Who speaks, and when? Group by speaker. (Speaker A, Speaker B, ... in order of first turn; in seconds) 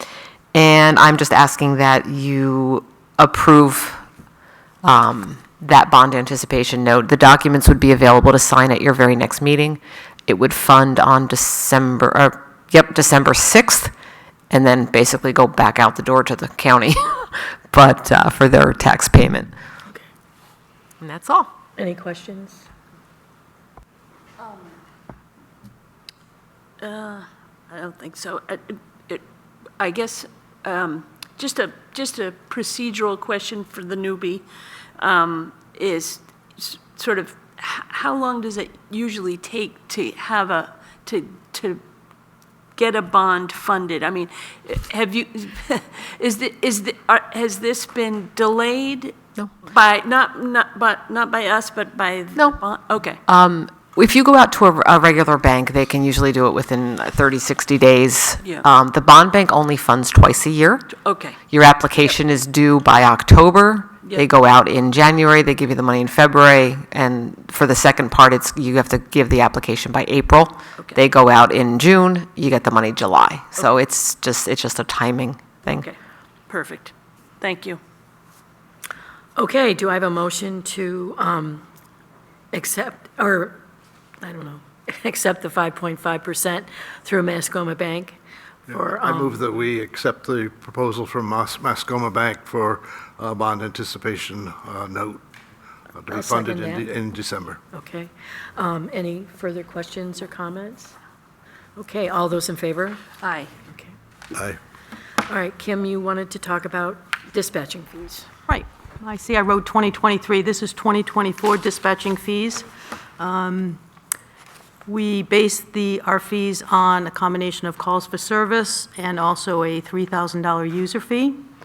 Speaker A: 0.5-4.0, 4.8-13.9, 14.5-19.5, 21.0-21.5, 53.3-60.9, 61.5-75.8
Speaker B: 21.8-22.7, 79.4-81.7, 82.5-83.6, 84.2-88.2, 88.7-89.5, 96.1-96.9, 97.7-101.0, 101.8-103.1, 103.7-104.0, 105.3-108.3
Speaker C: 24.4-24.7, 26.8-29.2, 29.8-34.5, 35.0-41.8, 42.8-53.2, 60.9-61.4, 75.7-76.0, 76.5-77.8, 103.2-103.5
Speaker D: 88.7-95.2, 95.9-97.6, 104.3-104.6
Speaker E: 108.5-112.7, 113.2-113.8, 114.9-121.5